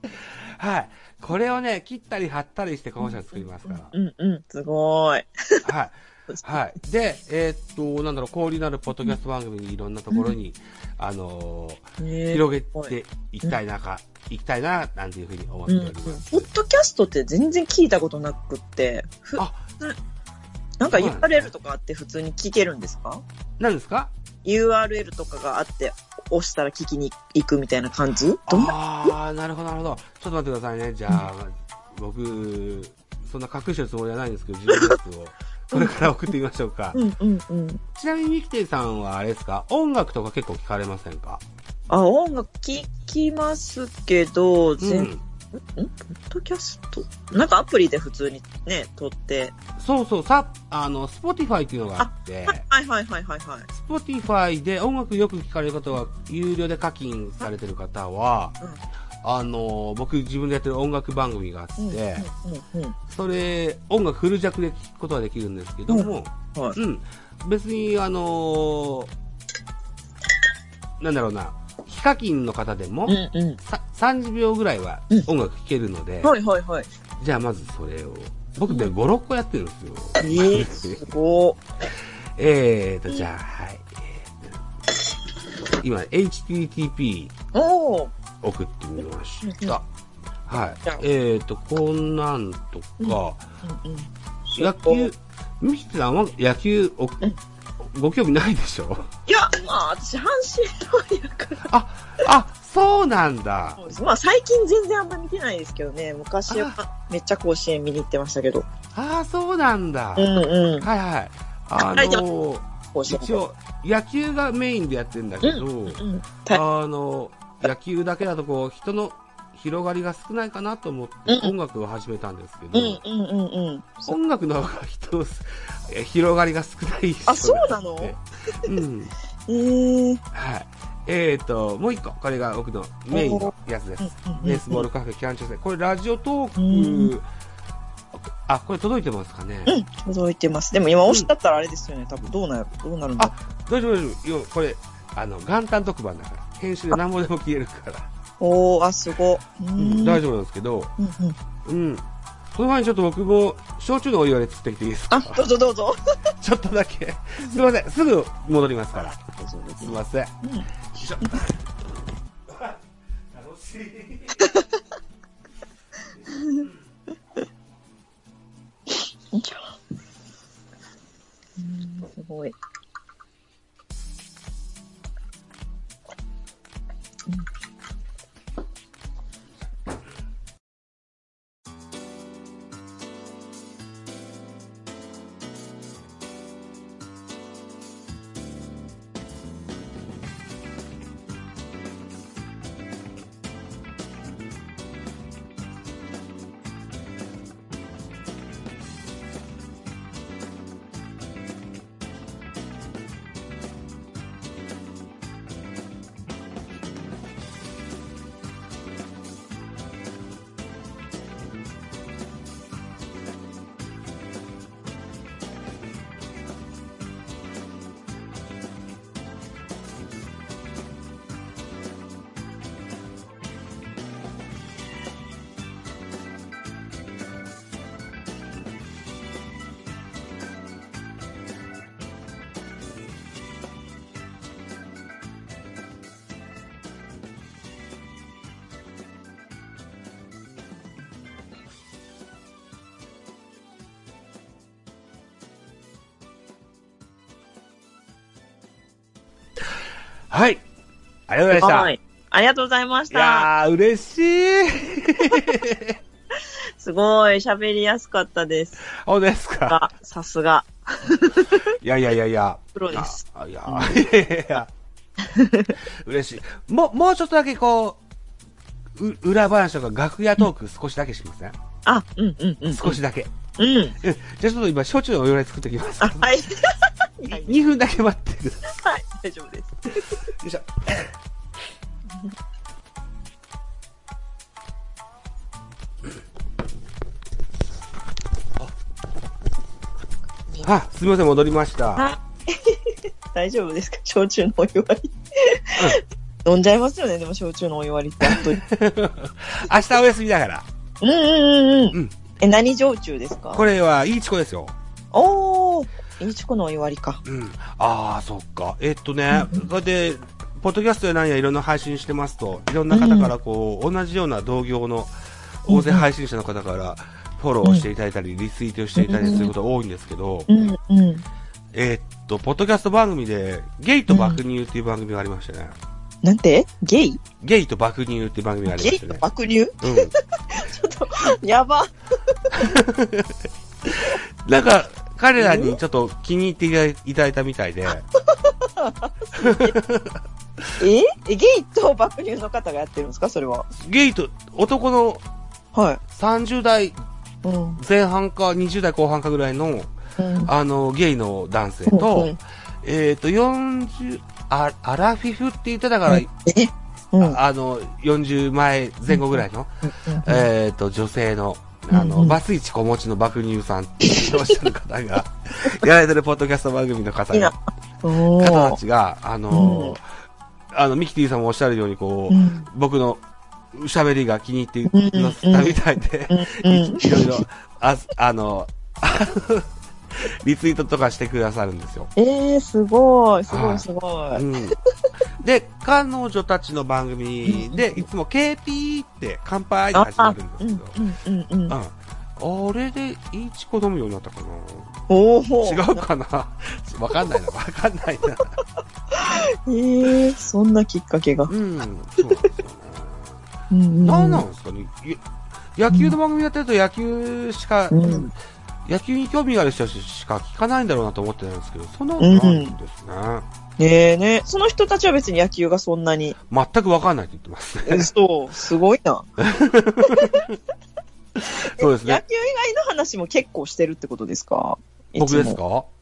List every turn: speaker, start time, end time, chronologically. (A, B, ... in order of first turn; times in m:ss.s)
0:00.2-0:03.9 A
0:03.6-0:05.7 B
0:05.6-0:16.5 A
0:12.0-0:13.6 B
0:15.7-0:20.0 B
0:19.4-0:19.6 A
0:20.8-0:23.2 B
0:20.9-0:21.5 A
0:23.6-0:24.1 A
0:24.4-0:29.1 B
0:28.5-0:37.0 A
0:34.7-0:35.0 B
0:35.7-0:36.1 B
0:36.9-0:37.8 B
0:38.0-0:41.4 A
0:41.9-0:49.5 B
0:44.8-0:45.2 A
0:49.8-0:52.6 A
0:52.0-0:53.7 B
0:53.7-0:58.6 A
0:59.2-1:02.3 A
1:01.8-1:03.0 B
1:03.1-1:09.1 A
1:05.9-1:06.8 B
1:11.0-1:16.3 A
1:13.1-1:13.6 B
1:16.2-1:16.9 B
1:17.2-1:21.0 A
1:20.2-1:21.6 B
1:22.4-1:24.6 A
1:25.8-1:27.3 A
1:27.5-1:28.1 B
1:28.4-1:29.8 A
1:29.4-1:29.8 B
1:30.5-1:33.5 A
1:33.0-1:35.1 B
1:34.6-1:37.2 A
1:37.8-1:39.1 A
1:39.3-1:41.7 B
1:41.7-1:43.8 A
1:43.8-1:48.7 B
1:46.5-1:46.8 A
1:48.9-2:03.0 A
1:50.2-1:50.9 B
1:51.9-1:52.2 B
1:52.9-1:53.4 B
1:55.4-1:56.6 B
2:01.3-2:01.5 B
2:02.7-2:04.2 B
2:04.1-2:09.1 A
2:07.2-2:08.7 B
2:09.5-2:10.2 B
2:10.3-2:17.2 A
2:13.1-2:14.9 B
2:16.6-2:17.1 B
2:18.1-2:19.7 A
2:19.6-2:23.3 B
2:23.2-2:28.1 A
2:28.4-2:30.2 B
2:29.8-2:30.9 A
2:31.0-2:31.4 B
2:31.6-2:35.5 A
2:35.1-2:36.0 B
2:36.4-2:39.2 A
2:39.2-2:40.7 B
2:39.8-2:40.3 A
2:41.0-2:41.6 A
2:42.5-2:42.8 A
2:43.3-2:44.5 A
2:44.4-2:44.7 B
2:46.3-2:46.6 B
2:49.3-2:49.7 B
2:51.6-2:52.5 B
4:10.3-4:10.6 A
4:11.3-4:11.9 A
4:11.5-4:13.5 B
4:13.1-4:16.0 A
4:16.8-4:18.9 B
4:18.9-4:19.8 A
4:19.7-4:21.7 B
4:21.7-4:24.7 A
4:22.7-4:24.0 B
4:25.2-4:25.8 B
4:26.0-4:28.0 A
4:29.0-4:31.6 A
4:31.8-4:33.0 B
4:32.7-4:33.3 A
4:33.6-4:34.0 B
4:34.0-4:36.4 A
4:36.0-4:37.6 B
4:37.2-4:38.6 A
4:38.7-4:40.2 B
4:40.0-4:41.1 A
4:50.6-4:52.0 A
4:52.0-4:58.6 B
4:58.2-5:00.6 A
5:01.0-5:03.6 B
5:03.5-5:04.7 A
5:05.1-5:07.2 B
5:07.2-5:15.1 A
5:09.3-5:09.7 B
5:12.9-5:13.3 B
5:15.6-5:20.5 A
5:15.7-5:16.0 B
5:19.0-5:19.5 B
5:20.5-5:21.2 B
5:21.7-5:25.8 A
5:24.1-5:24.4 B
5:26.2-5:27.2 B
5:27.4-5:29.2 A
5:28.7-5:32.7 B
5:29.8-5:30.1 A
5:32.5-5:38.0 A
5:35.4-5:35.8 B
5:38.2-5:39.8 B
5:39.3-5:40.7 A
5:40.8-5:43.6 B
5:43.7-5:45.2 A
5:45.7-5:46.0 B
5:46.1-5:47.0 A
5:47.4-5:47.8 B
5:47.8-5:49.9 A
5:50.2-5:50.5 B
5:50.4-5:56.3 A
5:51.9-5:52.4 B
5:56.1-5:57.4 B
5:57.2-6:07.5 A
5:59.1-6:00.5 B
6:01.9-6:02.4 B
6:04.0-6:04.6 B
6:07.3-6:08.8 B
6:08.4-6:10.0 A
6:09.5-6:10.0 B
6:10.7-6:13.2 A
6:12.3-6:12.7 B
6:13.7-6:22.1 A
6:14.9-6:17.4 B
6:22.2-6:24.4 B
6:23.5-6:24.8 A
6:25.4-6:31.0 A
6:27.4-6:28.0 B
6:29.9-6:31.8 B
6:31.7-6:34.9 A
6:35.1-6:36.0 B
6:35.6-6:38.6 A
6:39.1-6:41.5 B
6:41.5-6:43.4 A
6:43.7-6:44.4 B
6:44.0-6:45.2 A
6:45.7-6:48.3 A
6:45.9-6:46.2 B
6:47.9-6:48.3 B
6:48.8-6:53.4 A
6:52.2-6:52.8 B
6:53.8-6:56.4 B
6:56.5-6:58.1 A
6:57.8-6:59.3 B
6:59.4-7:00.6 A
7:00.0-7:00.5 B
7:01.4-7:02.2 A
7:01.5-7:05.6 B
7:05.2-7:05.9 A